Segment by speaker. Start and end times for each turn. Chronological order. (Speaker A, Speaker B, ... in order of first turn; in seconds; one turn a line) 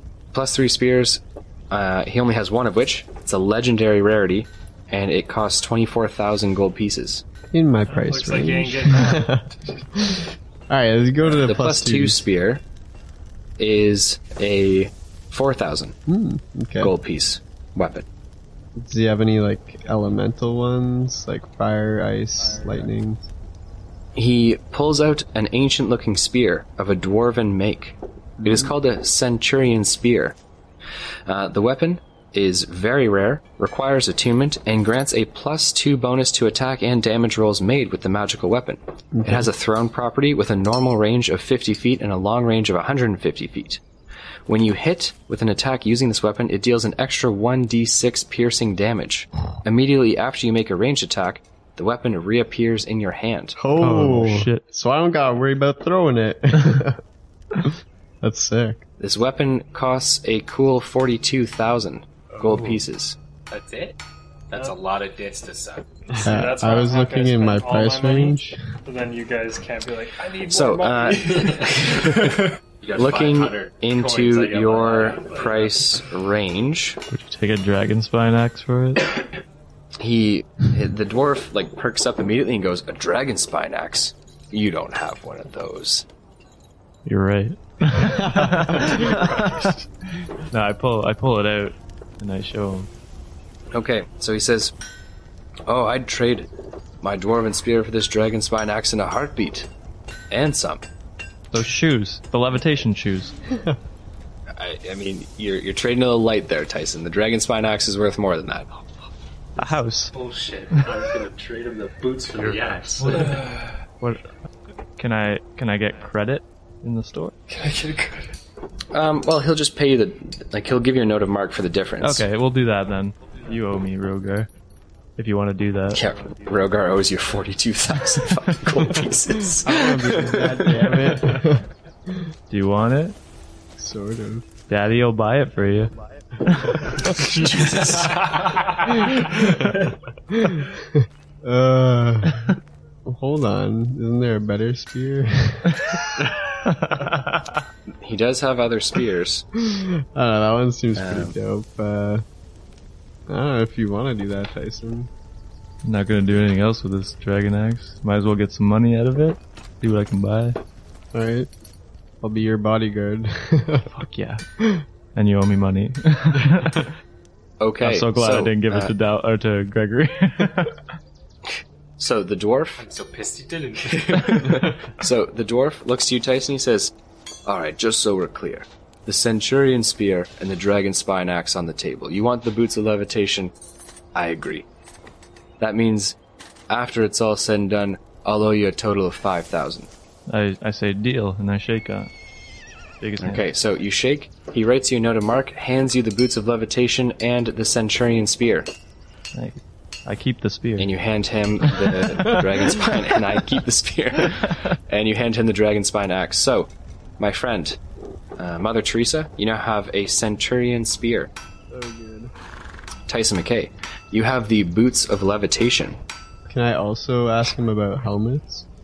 Speaker A: 0.3-7.2
Speaker B: 7.5-12.2
Speaker C: 7.9-9.5
Speaker A: 11.2-12.6
Speaker A: 13.6-15.9
Speaker B: 16.1-16.9
Speaker A: 16.8-18.1
Speaker B: 18.8-23.3
Speaker A: 24.1-30.4
Speaker A: 31.3-43.8
Speaker B: 39.1-39.5
Speaker A: 44.5-53.6
Speaker B: 53.6-57.0
Speaker D: 53.8-54.6
Speaker B: 57.6-58.8
Speaker A: 59.0-63.2
Speaker E: 63.5-64.0
Speaker E: 64.5-66.3
Speaker B: 66.2-68.6
Speaker C: 66.2-72.5
Speaker A: 70.5-77.0
Speaker E: 72.8-75.8
Speaker D: 77.1-79.2
Speaker A: 80.0-86.0
Speaker D: 87.0-89.8
Speaker B: 88.3-88.8
Speaker D: 90.4-92.9
Speaker A: 93.7-94.7
Speaker A: 95.7-96.5
Speaker A: 97.0-99.7
Speaker A: 100.3-100.8
Speaker D: 101.5-103.3
Speaker A: 104.5-108.8
Speaker D: 109.6-110.1
Speaker E: 110.1-113.4
Speaker D: 113.0-114.2
Speaker C: 113.2-113.6
Speaker D: 115.0-117.3
Speaker C: 117.5-118.3
Speaker A: 118.9-122.2
Speaker D: 122.0-124.5
Speaker D: 125.2-126.0
Speaker A: 125.9-131.1
Speaker B: 129.6-131.7
Speaker D: 132.5-133.2
Speaker B: 133.8-134.5
Speaker D: 134.7-135.9
Speaker D: 136.4-136.9
Speaker A: 137.5-137.8
Speaker B: 140.3-146.0
Speaker D: 146.6-147.4
Speaker A: 147.9-149.4
Speaker B: 149.6-152.2
Speaker A: 150.9-151.3
Speaker B: 153.3-155.1
Speaker D: 155.8-160.6
Speaker B: 161.1-161.5
Speaker B: 162.2-163.9
Speaker D: 163.9-164.4
Speaker D: 165.1-166.9
Speaker A: 167.6-168.9
Speaker D: 167.8-170.8
Speaker A: 171.5-172.8
Speaker E: 172.8-174.7
Speaker A: 173.9-176.9
Speaker A: 177.4-183.5
Speaker A: 184.1-184.7
Speaker A: 185.6-186.2
Speaker A: 186.7-189.9
Speaker D: 190.3-192.1
Speaker D: 193.0-193.4
Speaker A: 193.2-198.7
Speaker D: 199.3-200.9
Speaker A: 200.8-207.8
Speaker A: 208.4-211.3
Speaker B: 211.7-212.3
Speaker A: 213.1-216.0
Speaker B: 216.5-218.7